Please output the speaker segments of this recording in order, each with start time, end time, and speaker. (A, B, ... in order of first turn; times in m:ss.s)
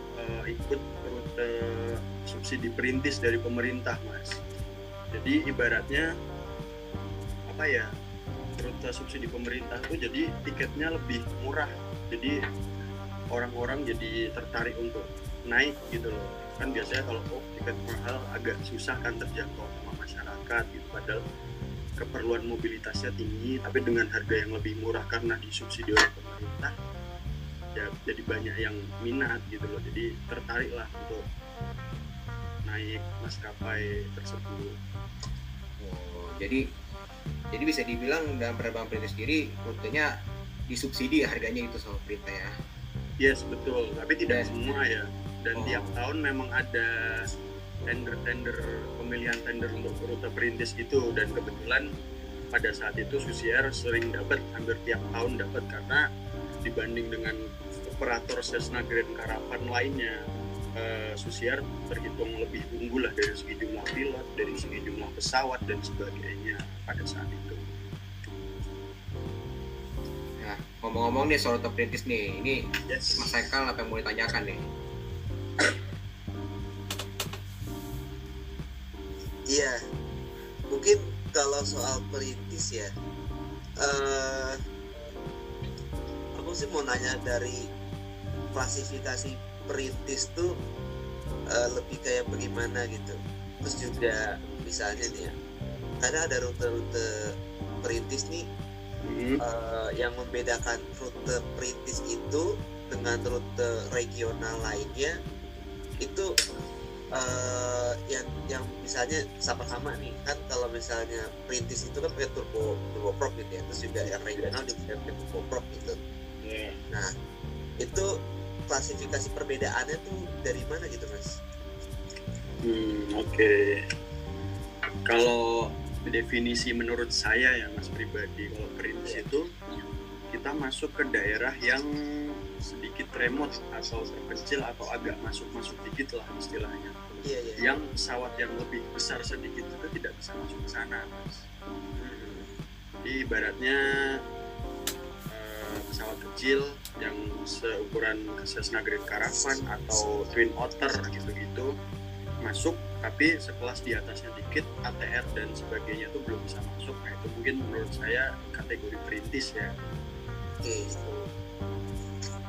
0:00.2-0:04.4 A
0:05.1-0:06.0 A
0:07.5-0:07.9 A
0:08.6-0:12.4 A
0:13.3-0:21.2 A
0:22.0-0:26.7 A
0:27.7-0:31.2 A
0:32.6-0:34.8 A
0:35.8-0:36.6 B
0:37.5-0:40.1 B
0:40.7-0:42.5 B
0:43.2-0:47.3 A
0:45.6-0:45.9 B
0:47.9-0:51.9 A
0:52.5-0:56.0 A
0:56.6-1:00.2 A
1:00.7-1:07.6 A
1:10.4-1:12.6 B
1:12.9-1:13.3 A
1:13.2-1:14.6 B
1:19.5-1:19.8 C
1:20.7-1:22.9 C
1:23.8-1:24.6 C
1:26.4-1:27.6 C
1:28.5-1:30.5 C
1:31.5-1:35.3 C
1:36.0-1:37.1 C
1:37.8-1:38.4 C
1:39.1-1:39.4 A
1:39.4-1:45.1 C
1:46.0-1:46.2 C
1:47.1-1:56.0 C
1:54.0-1:54.5 A
1:56.4-1:56.8 A
1:57.8-1:58.0 C
1:58.7-2:01.4 C
2:02.6-2:03.8 A
2:05.0-2:09.5 A
2:10.3-2:11.9 A
2:12.6-2:16.9 A
2:17.2-2:17.7 C
2:17.6-2:21.4 A
2:22.0-2:22.5 C
2:23.0-2:23.8 A
2:25.3-2:31.7 A
2:32.4-2:39.7 A
2:40.6-2:41.0 C
2:41.0-2:41.3 A